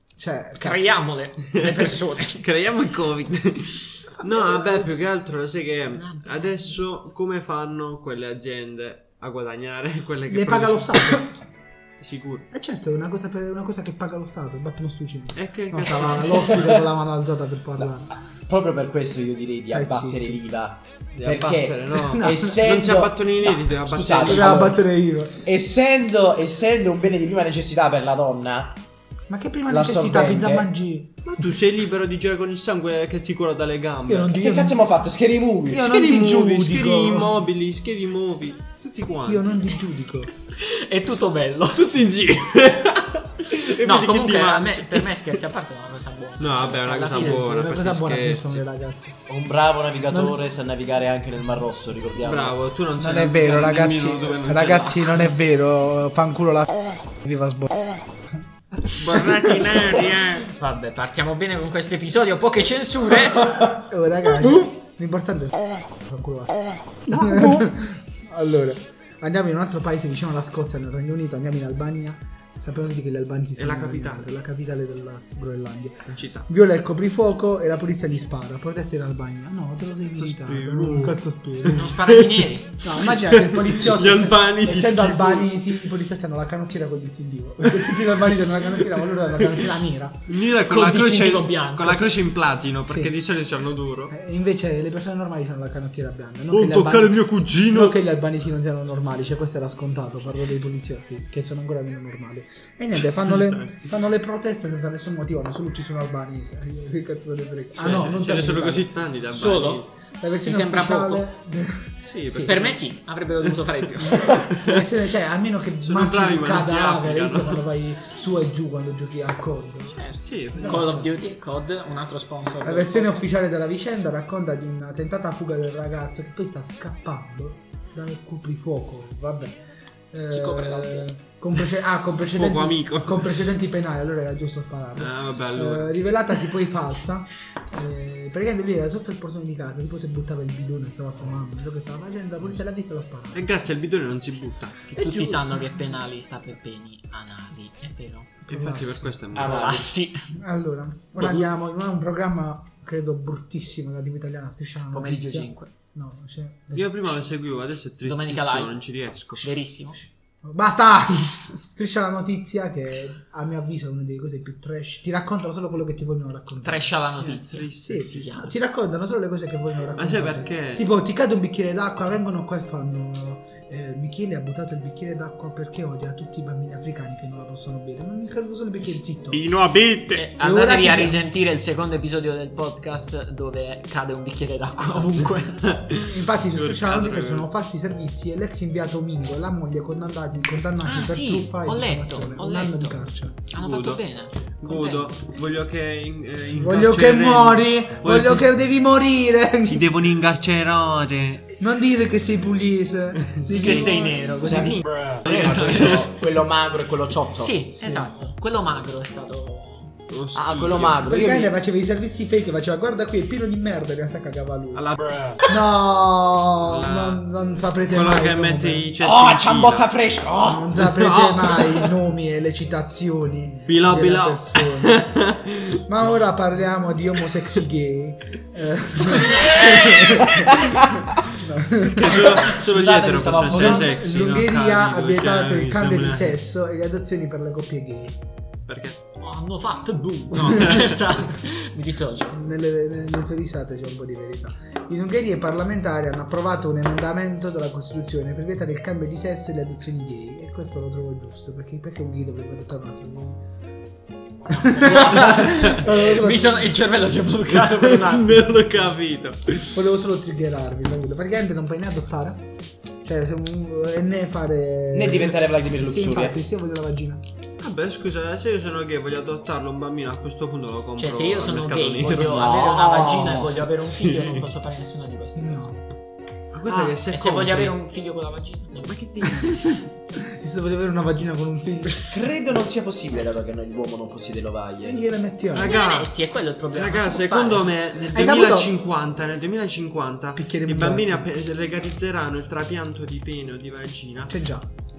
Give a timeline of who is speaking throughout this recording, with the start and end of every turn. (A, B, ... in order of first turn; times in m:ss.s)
0:00.2-0:00.9 A
0:00.6-0:02.4 B
0:01.5-0:11.2 C
0:04.1-0:04.9 A
0:05.9-0:06.7 B
0:10.3-0:11.4 A
0:12.0-0:12.4 C
0:12.5-0:18.1 A
0:15.4-0:16.7 C
0:18.5-0:24.8 D
0:19.7-0:20.4 A
0:21.1-0:24.7 C
0:22.0-0:22.6 A
0:24.2-0:25.4 A
0:25.4-0:28.8 D
0:29.3-0:31.4 A
0:29.7-0:30.7 D
0:31.2-0:34.3 C
0:34.1-0:34.8 A
0:34.4-0:35.8 D
0:35.7-0:37.4 A
0:35.8-0:39.8 C
0:39.2-0:40.3 A
0:40.5-0:42.0 B
0:41.7-0:45.4 C
0:43.8-0:47.5 B
0:46.4-0:48.6 C
0:47.1-0:49.2 A
0:49.3-0:52.6 D
0:50.1-0:50.4 A
0:52.2-0:55.3 C
0:53.0-0:58.4 A
0:58.8-1:00.5 C
0:59.1-0:59.7 A
0:59.4-1:03.5 B
1:03.6-1:22.0 A
1:07.1-1:07.6 D
1:13.6-1:14.3 C
1:16.1-1:16.4 C
1:20.1-1:25.7 C
1:21.7-1:22.8 B
1:22.8-1:30.2 A
1:29.4-1:29.7 C
1:30.3-1:34.1 C
1:30.6-1:32.1 B
1:32.9-1:33.1 A
1:34.1-1:48.9 A
1:36.5-1:38.0 C
1:43.0-1:43.8 C
1:47.8-1:49.9 C
1:49.3-1:49.8 B
1:50.2-1:52.7 A
1:50.4-1:51.2 B
1:52.0-1:52.8 C
1:52.4-1:54.3 B
1:53.4-1:54.9 C
1:54.0-2:00.0 A
1:55.8-1:57.6 C
1:59.9-2:03.2 B
2:00.2-2:00.9 C
2:00.5-2:01.1 A
2:02.6-2:09.6 A
2:10.1-2:23.5 A
2:10.3-2:11.1 B
2:12.3-2:13.5 C
2:15.0-2:16.1 C
2:23.3-2:24.9 C
2:24.9-2:28.3 B
2:24.9-2:25.9 A
2:28.4-2:29.2 A
2:28.5-2:29.8 C
2:29.3-2:29.9 D
2:29.4-2:30.2 B
2:30.3-2:37.2 A
2:34.9-2:35.7 B
2:36.7-2:39.5 C
2:38.0-2:38.7 B
2:39.4-2:40.0 B
2:40.4-2:47.0 A
2:46.6-2:48.4 B
2:47.2-2:48.5 C
2:47.8-2:59.4 A
2:49.9-2:50.8 C
2:59.3-3:00.3 C
3:00.1-3:05.6 B
3:00.4-3:01.2 A
3:05.6-3:07.5 C
3:05.9-3:13.4 A
3:10.8-3:15.1 B
3:13.6-3:14.0 C
3:14.6-3:18.4 C
3:16.6-3:19.9 A
3:19.6-3:21.5 C
3:21.6-3:24.6 A
3:23.2-3:23.9 C
3:23.5-3:26.1 B
3:24.4-3:27.7 D
3:24.8-3:26.0 C
3:27.4-3:29.9 B
3:27.8-3:28.1 A
3:30.1-3:31.0 C
3:30.3-3:31.6 D
3:31.0-3:34.9 A
3:34.7-3:35.4 C
3:35.4-3:38.9 A
3:36.6-3:37.2 C
3:37.9-3:39.9 C
3:39.0-3:41.9 D
3:40.4-3:45.1 A
3:40.9-3:41.5 C
3:43.6-3:46.2 C
3:45.9-3:52.6 A
3:49.1-3:50.2 C
3:50.2-3:51.0 D
3:51.9-3:56.4 C
3:52.1-3:53.9 D
3:53.5-3:58.2 A
3:58.7-3:59.0 C
3:59.2-4:02.4 B
4:00.4-4:01.2 C
4:02.3-4:13.4 A
4:14.5-4:16.7 A
4:14.5-4:18.5 B
4:15.2-4:15.8 C
4:17.5-4:19.8 C
4:19.7-4:22.5 A
4:23.0-4:27.2 A
4:24.9-4:26.4 D
4:27.6-4:34.4 C
4:31.0-4:35.7 B
4:32.4-4:33.4 D
4:32.7-4:33.4 A
4:35.4-4:35.8 A
4:36.5-4:37.8 C
4:36.6-4:37.0 A
4:37.1-4:39.0 B
4:38.8-4:39.6 C
4:39.2-4:42.2 A
4:42.1-4:45.0 D
4:44.8-4:45.8 A
4:45.5-4:46.1 C
4:45.5-4:47.7 B
4:46.7-4:54.3 C
4:48.1-4:48.7 A
4:50.4-4:51.3 A
4:54.3-4:54.7 A